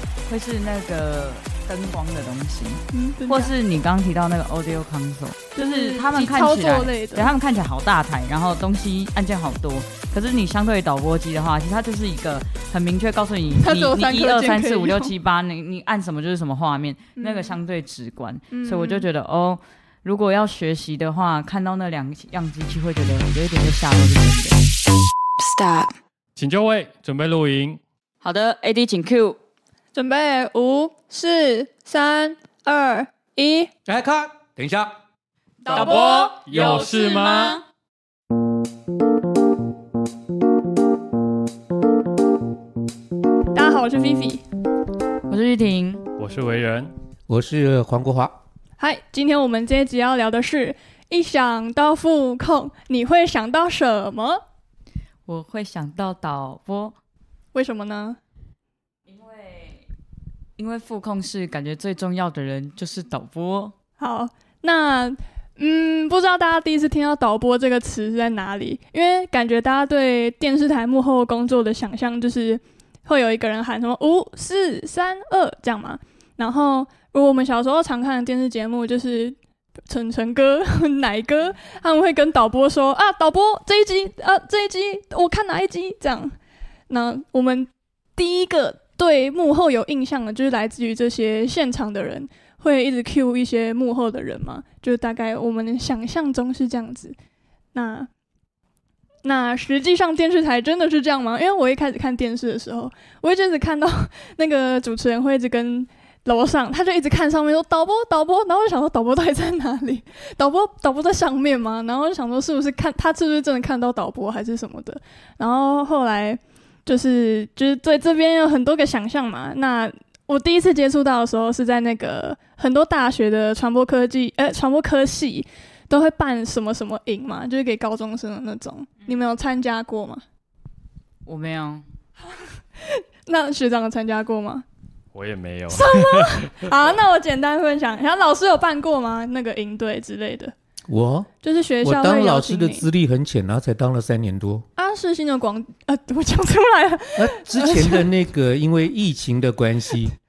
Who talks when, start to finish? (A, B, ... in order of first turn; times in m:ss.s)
0:00.3-0:24.6 A
0:02.9-0:03.5 B
0:05.6-0:07.3 B
0:13.5-0:15.1 B
0:17.2-0:17.6 B
0:18.5-0:19.1 B
0:25.5-0:25.9 A
0:26.4-0:27.8 C
0:28.2-0:29.4 A
0:29.9-0:33.7 B
0:33.9-0:35.0 D
0:35.6-0:36.3 B
0:35.7-0:37.6 A
0:35.7-0:37.6 C
0:43.5-0:44.4 B
0:45.3-0:46.0 A
0:46.2-0:46.9 C
0:47.3-0:48.4 D
0:48.8-0:54.4 B
0:55.3-0:57.0 A
0:57.5-0:58.2 B
0:59.1-0:59.9 A
1:00.6-1:03.7 A
1:04.0-1:19.4 B
1:19.9-1:26.4 B
1:26.9-1:37.2 B
1:37.7-1:38.1 B
1:39.2-2:10.2 B
2:11.3-2:11.8 A
2:12.8-2:14.6 B
2:15.1-2:16.7 C
2:15.7-2:20.5 B
2:20.9-2:21.3 D
2:21.4-2:22.9 B
2:21.8-2:24.6 D
2:24.8-2:28.1 B
2:27.2-2:30.2 D